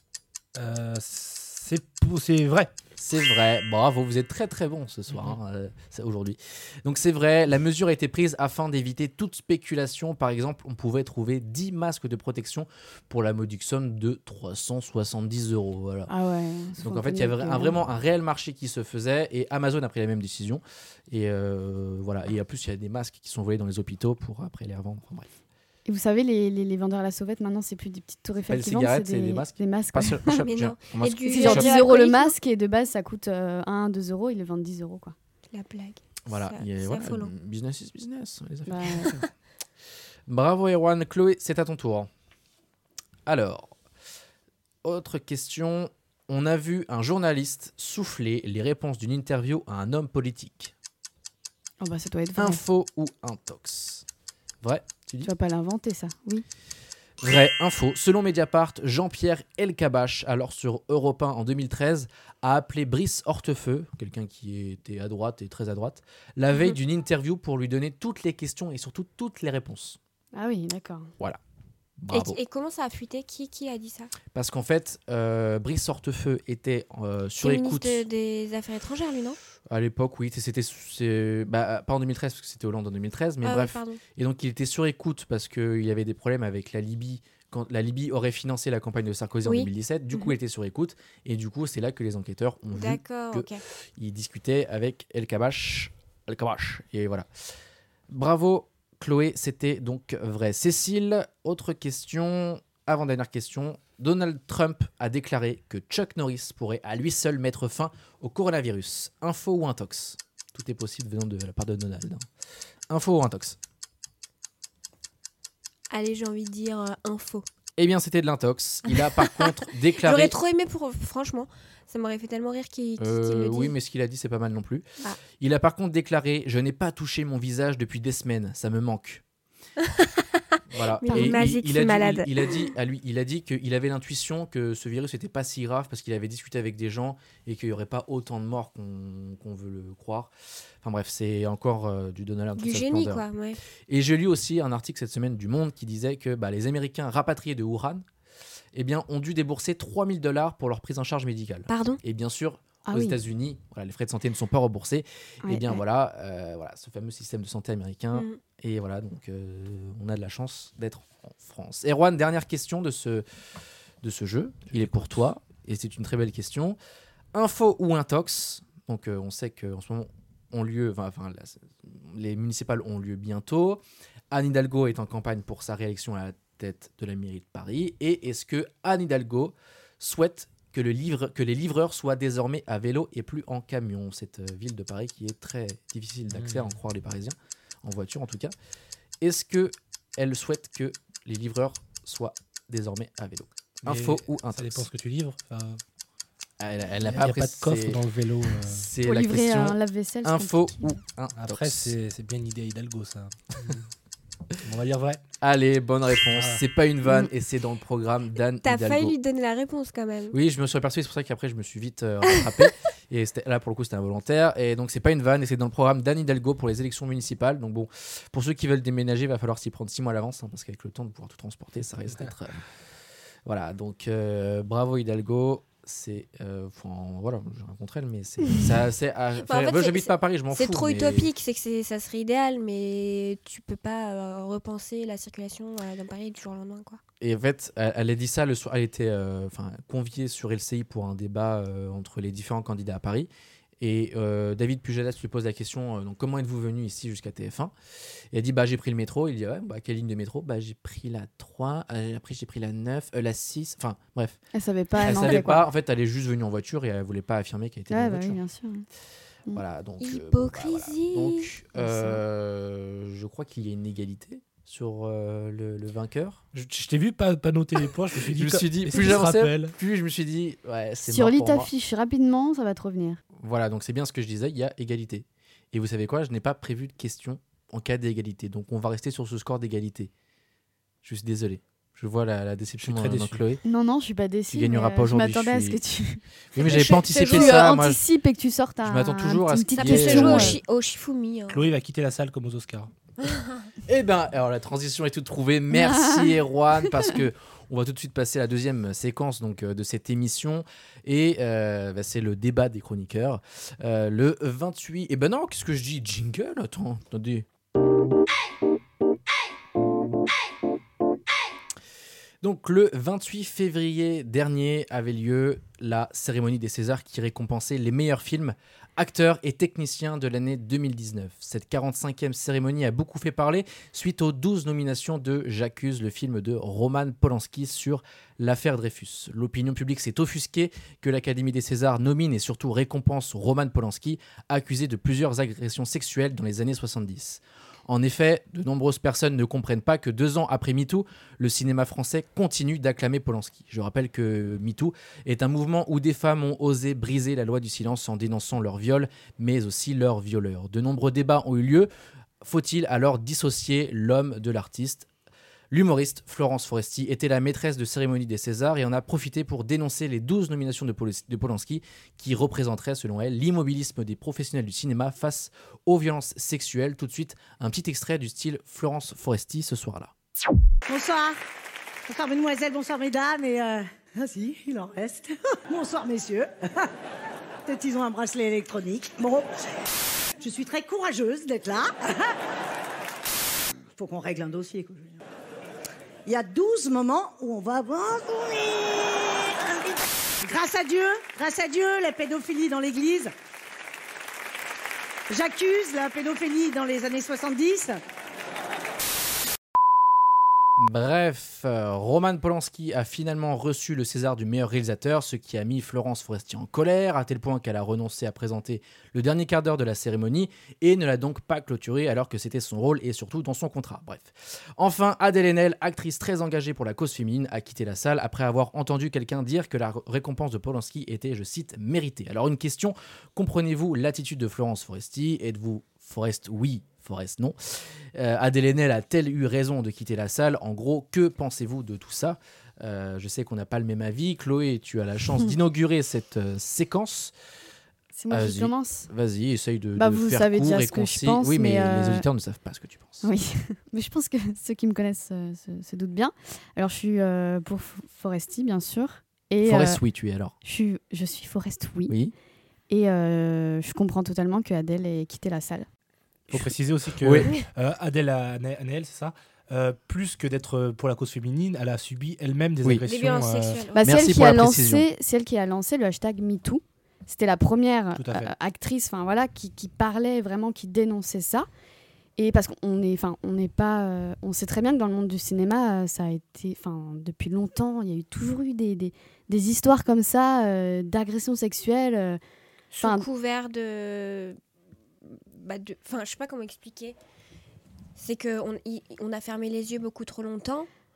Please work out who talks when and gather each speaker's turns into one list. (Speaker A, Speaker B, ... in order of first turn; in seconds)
Speaker A: 0.6-2.7, 186.3-186.7, 193.8-195.8, 197.1-198.9, 201.4-203.9, 204.6-205.2, 206.3-206.6, 266.5-269.8, 282.8-283.4, 291.5-292.9, 456.5-463.8, 468.2-468.5
Speaker B: 3.0-16.1, 16.8-25.3, 28.5-31.7, 36.3-39.3, 40.3-42.1, 43.3-43.7, 44.8-50.7, 52.4-54.0, 54.6-55.3, 57.2-70.0, 72.0-72.4, 74.3-78.1, 79.7-97.3, 98.1-112.3, 112.9-113.6, 117.8-120.3, 123.0-129.2, 130.7-143.2, 143.9-148.1, 148.7-163.2, 164.0-166.8, 167.3-188.5, 189.2-194.9, 196.6-201.9, 205.4-209.2, 210.3-222.6, 223.4-231.3, 237.2-247.7, 248.3-254.4, 255.0-258.4, 259.5-266.4, 268.2-271.7, 273.4-280.1, 281.0-283.6, 284.5-285.8, 286.6-288.0, 288.8-290.6, 293.9-307.5, 312.4-351.9, 352.4-355.1, 355.7-370.1, 400.8-437.3, 438.3-443.2, 449.6-450.6, 452.1-452.3, 456.5-457.5, 464.0-465.1
Speaker C: 16.1-17.8, 25.9-30.5, 31.3-35.1, 38.7-39.2, 51.8-52.6, 55.2-56.5, 70.3-71.1, 131.1-131.4, 152.9-153.2, 155.4-155.8, 199.0-201.0, 254.5-255.7, 257.9-258.9, 261.8-262.2, 271.1-273.2, 283.6-290.6, 295.8-296.3, 438.1-439.1, 440.0-442.3, 443.2-450.0, 450.6-452.1, 452.9-455.9, 463.9-471.7, 472.4-482.4, 483.0-483.3
Speaker D: 30.4-32.4, 35.5-37.3, 72.1-74.1, 77.4-79.4, 83.4-84.0, 89.5-90.3, 92.7-93.6, 115.9-117.5, 118.9-123.8, 129.8-132.7, 142.6-143.6, 151.7-152.0, 158.1-158.4, 208.6-210.4, 229.4-237.0, 260.0-261.5, 286.6-287.5, 289.7-291.7, 293.2-293.6, 463.1-464.1, 482.9-484.6, 485.3-487.2, 488.2-490.9
Speaker E: 370.9-371.4, 372.1-376.9, 377.6-379.5, 380.4-382.4, 383.9-385.2, 386.3-393.3, 395.3-398.0